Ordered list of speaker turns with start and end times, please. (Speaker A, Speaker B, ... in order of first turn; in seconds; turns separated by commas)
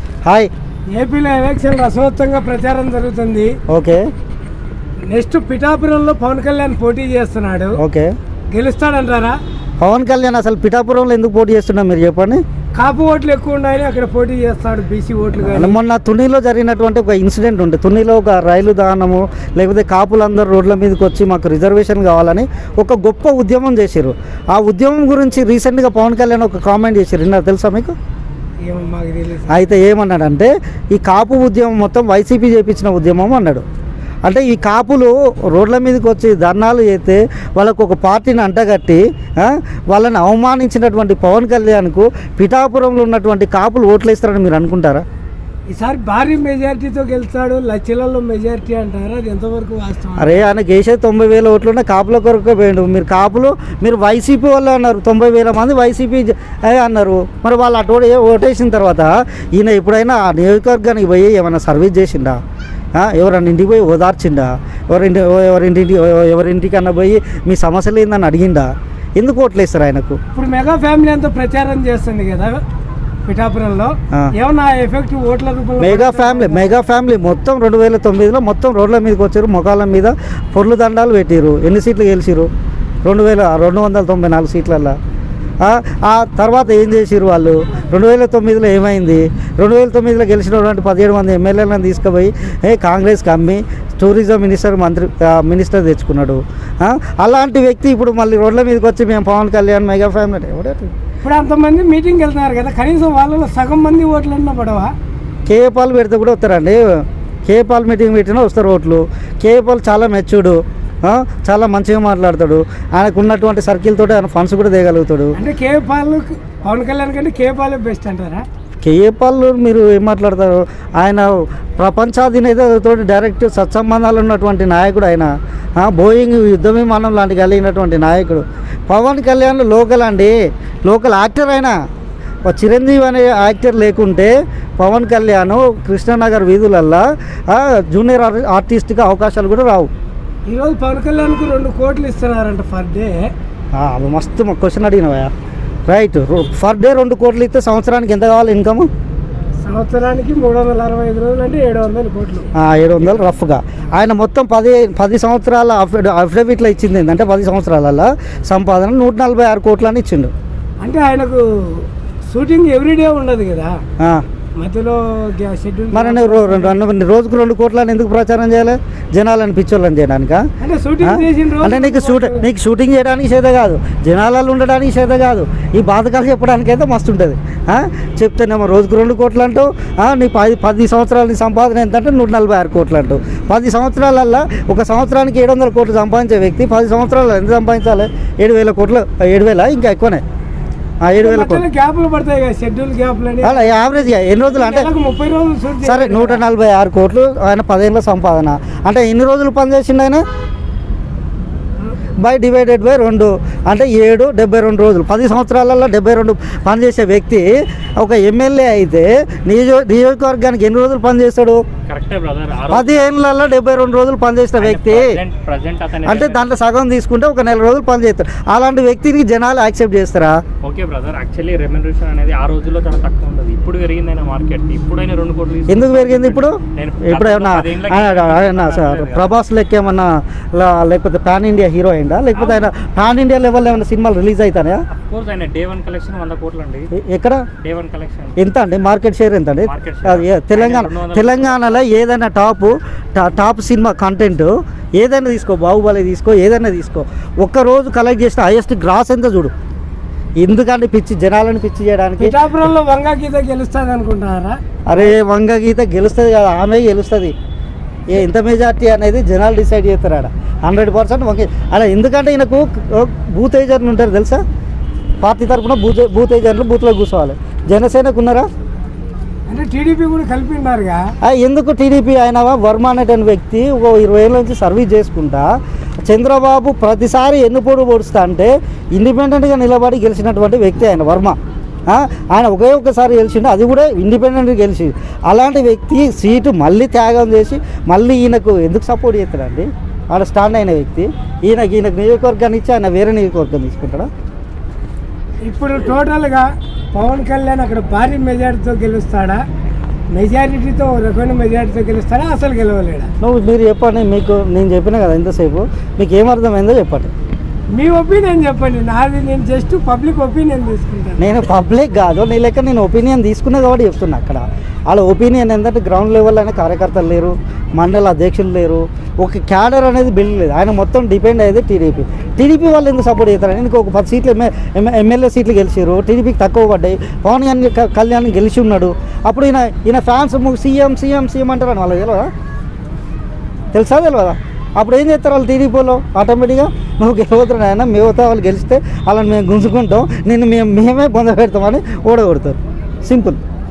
Speaker A: 0.2-0.5, Speaker B: 0.9-3.5, Speaker A: 3.7-4.0, Speaker B: 5.1-7.8, Speaker A: 7.8-8.1, Speaker B: 8.5-9.4, Speaker A: 9.8-12.4, Speaker B: 12.8-15.8, Speaker A: 15.4-27.9, Speaker B: 28.6-29.6, Speaker A: 29.5-33.6, Speaker A: 34.2-45.0, Speaker B: 45.7-50.4, Speaker A: 50.2-62.4, Speaker A: 63.0-70.2, Speaker B: 70.3-72.6, Speaker B: 73.2-76.7, Speaker A: 75.8-82.5, Speaker A: 83.0-85.0, Speaker A: 85.6-100.9, Speaker B: 101.2-104.9, Speaker A: 105.5-115.3, Speaker B: 115.3-118.4, Speaker A: 118.8-130.3, Speaker A: 130.8-131.7, Speaker A: 132.4-139.9, Speaker B: 140.4-143.3, Speaker A: 143.7-145.3, Speaker A: 145.9-148.9, Speaker B: 149.6-152.5, Speaker A: 152.6-160.3, Speaker B: 160.8-163.8, Speaker A: 164.0-164.2, Speaker B: 164.6-166.8, Speaker A: 165.9-170.4, Speaker B: 170.6-172.4, Speaker A: 171.0-190.2, Speaker A: 191.0-191.6, Speaker B: 191.2-196.4, Speaker A: 193.4-194.9, Speaker A: 195.8-200.2, Speaker A: 202.2-211.6, Speaker C: 211.9-213.1, Speaker A: 212.7-215.2, Speaker C: 214.6-216.5, Speaker A: 216.0-220.4, Speaker C: 220.6-229.3, Speaker A: 225.7-234.8, Speaker C: 232.3-232.7, Speaker C: 234.9-236.9, Speaker A: 236.9-237.5, Speaker C: 237.6-238.3, Speaker A: 238.4-249.5, Speaker C: 239.7-241.8, Speaker A: 250.4-252.3, Speaker B: 252.2-255.1, Speaker A: 254.9-257.3, Speaker A: 258.1-264.4, Speaker A: 265.2-268.4, Speaker B: 269.5-271.0, Speaker A: 271.2-275.5, Speaker A: 276.0-281.4, Speaker A: 281.9-294.1, Speaker B: 295.4-299.4, Speaker B: 300.1-303.1, Speaker A: 303.2-307.1, Speaker B: 307.7-311.4, Speaker A: 311.2-332.3, Speaker A: 333.7-343.4